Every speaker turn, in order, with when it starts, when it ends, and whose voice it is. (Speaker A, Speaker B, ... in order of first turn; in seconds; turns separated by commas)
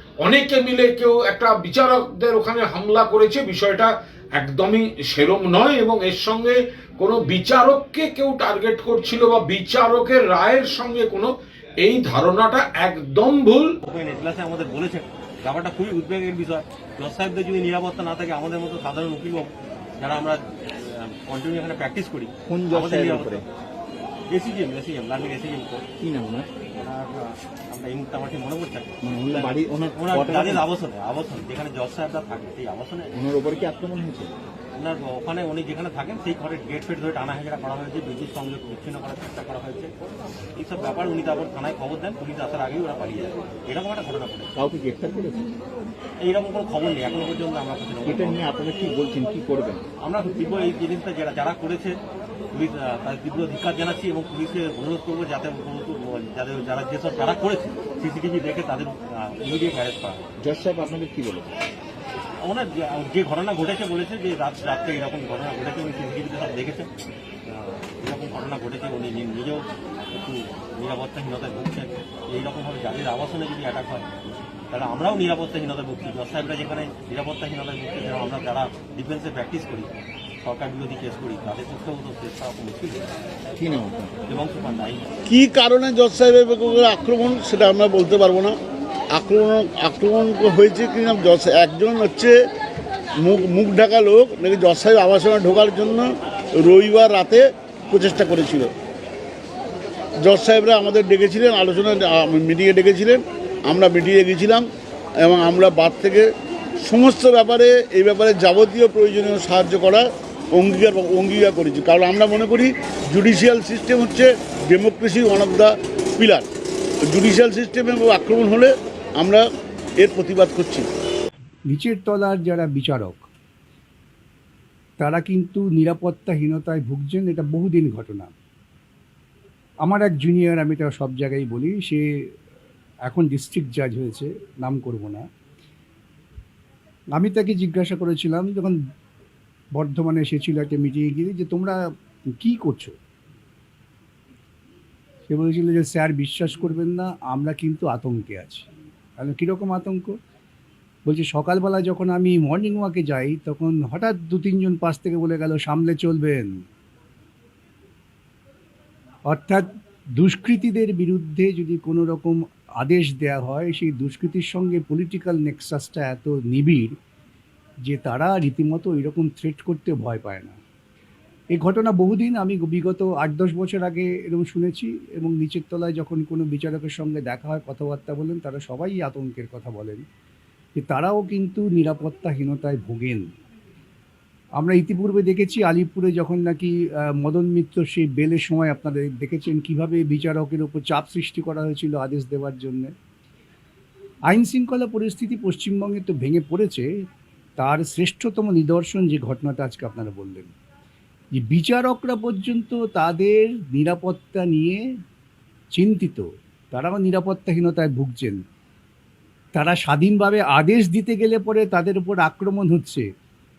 Speaker A: 0.2-11.3, Speaker A: 11.8-13.7, Speaker B: 13.8-23.4, Speaker C: 22.5-23.4, Speaker B: 24.3-25.8, Speaker C: 26.0-26.5, Speaker B: 26.8-33.1, Speaker C: 29.0-30.7, Speaker C: 33.1-34.3, Speaker B: 34.8-39.9, Speaker B: 40.6-44.5, Speaker C: 44.5-45.4, Speaker B: 46.2-48.5, Speaker C: 48.0-49.8, Speaker B: 50.0-52.0, Speaker B: 52.5-60.2, Speaker C: 60.4-61.5, Speaker B: 62.4-66.9, Speaker B: 67.5-74.1, Speaker B: 74.7-83.1, Speaker C: 83.6-84.1, Speaker B: 84.3-85.1, Speaker D: 85.3-88.6, Speaker D: 89.1-92.4, Speaker D: 93.2-96.1, Speaker D: 96.6-98.7, Speaker D: 100.2-104.7, Speaker D: 105.2-116.5, Speaker D: 117.1-119.4, Speaker D: 120.0-120.9, Speaker E: 121.7-123.3, Speaker E: 125.0-128.3, Speaker E: 129.8-132.1, Speaker E: 133.1-135.2, Speaker E: 137.1-138.8, Speaker E: 139.8-141.8, Speaker E: 142.4-142.9, Speaker E: 145.3-150.1, Speaker E: 151.1-156.5, Speaker E: 159.3-159.7, Speaker E: 160.2-166.9, Speaker E: 167.9-170.6, Speaker E: 171.5-180.0, Speaker E: 180.8-183.2, Speaker E: 184.6-192.9, Speaker E: 194.3-196.9, Speaker E: 197.6-200.5, Speaker E: 201.3-204.8, Speaker E: 205.7-208.4, Speaker E: 209.5-213.1